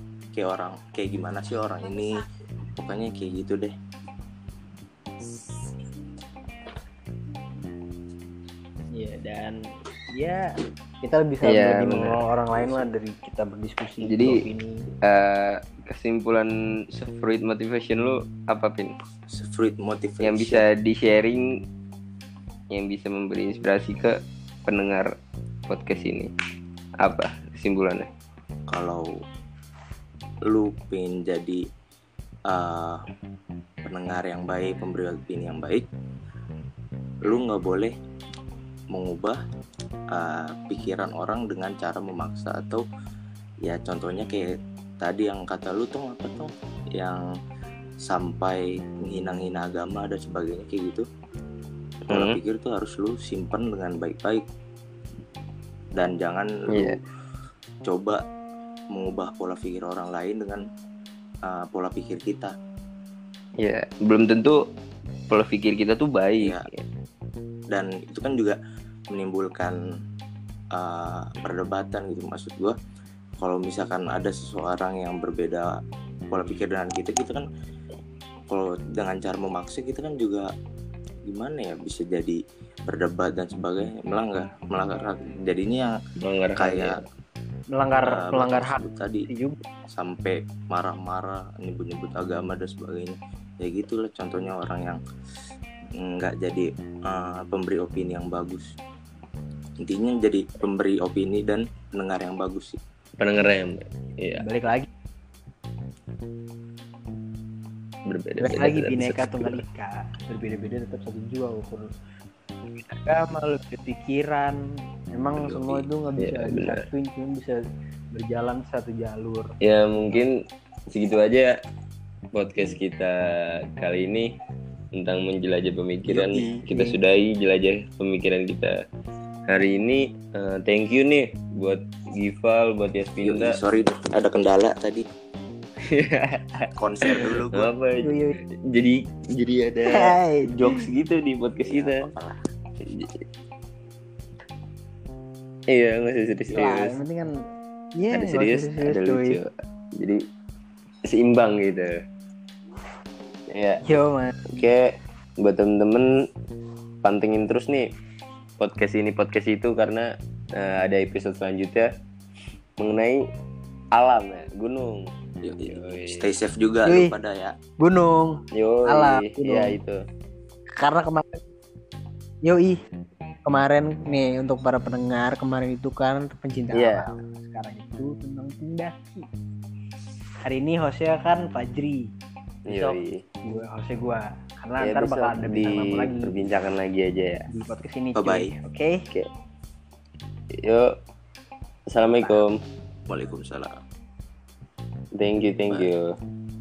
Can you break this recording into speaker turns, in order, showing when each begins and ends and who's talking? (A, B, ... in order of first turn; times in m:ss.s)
0:00.4-0:02.2 A
0:02.8-0:03.7 A
0:08.9-0:09.6 B
0:10.1-0:14.8 B
0:11.4-0:12.2 C
0:12.6-0:12.9 A
0:14.0-0:14.4 C
0:15.0-0:18.9 C
0:19.3-0:20.6 A
0:20.2-0:21.4 C
0:22.7-0:25.1 C
0:25.7-0:26.3 C
0:27.0-0:28.1 C
0:28.7-0:29.1 A
0:30.5-0:31.6 A
0:32.5-0:33.0 A
0:33.8-0:35.9 A
0:37.3-0:37.9 A
0:38.9-0:39.4 A
0:40.1-0:42.8 A
0:43.6-0:47.2 A
0:48.1-0:51.0 A
0:52.1-0:52.4 C
0:52.1-0:54.4 A
0:56.0-0:57.0 A
0:56.7-0:57.0 C
0:57.8-0:58.2 A
0:58.9-1:00.6 A
1:01.5-1:02.5 A
1:03.6-1:04.6 C
1:05.3-1:06.8 C
1:06.4-1:06.7 A
1:07.7-1:08.6 A
1:09.1-1:09.8 A
1:10.7-1:12.8 A
1:13.4-1:15.8 A
1:16.3-1:17.5 A
1:18.5-1:20.5 A
1:21.3-1:25.9 A
1:26.2-1:27.0 C
1:26.6-1:27.0 A
1:27.8-1:29.6 B
1:28.0-1:29.3 A
1:29.9-1:35.0 A
1:36.0-1:38.7 A
1:39.8-1:42.8 A
1:43.2-1:44.5 C
1:44.4-1:44.9 B
1:48.1-1:49.6 C
1:48.4-1:51.9 B
1:52.9-1:54.6 B
1:55.1-1:57.6 B
1:55.4-1:55.9 A
1:56.2-1:56.9 C
1:58.1-1:59.5 B
1:59.6-2:00.4 C
2:00.9-2:01.5 C
2:02.4-2:04.3 C
2:05.0-2:08.7 C
2:06.1-2:06.9 A
2:09.5-2:13.6 C
2:13.2-2:15.0 A
2:15.9-2:22.1 C
2:16.8-2:17.7 A
2:18.0-2:18.4 B
2:19.9-2:20.8 B
2:21.6-2:22.4 A
2:22.8-2:23.2 C
2:25.7-2:27.0 C
2:26.5-2:27.3 B
2:28.0-2:29.4 B
2:28.1-2:30.2 C
2:31.1-2:31.9 C
2:33.5-2:33.8 C
2:33.8-2:34.6 B
2:34.5-2:34.9 C
2:35.4-2:36.1 C
2:37.0-2:37.9 C
2:38.6-2:41.9 C
2:42.8-2:43.2 C
2:44.0-2:45.1 C
2:45.4-2:47.6 A
2:45.7-2:46.3 C
2:46.9-2:47.1 B
2:47.8-2:49.8 B
2:48.5-2:50.0 C
2:50.8-2:51.4 B
2:52.4-2:52.8 B
2:53.5-2:59.3 B
2:56.7-2:57.0 C
3:00.5-3:02.1 B
3:02.7-3:03.2 C
3:02.7-3:06.3 B
3:04.8-3:07.5 C
3:07.5-3:09.0 B
3:08.2-3:08.6 A
3:10.6-3:10.9 C
3:11.9-3:12.6 C
3:13.1-3:13.8 A
3:15.2-3:16.1 C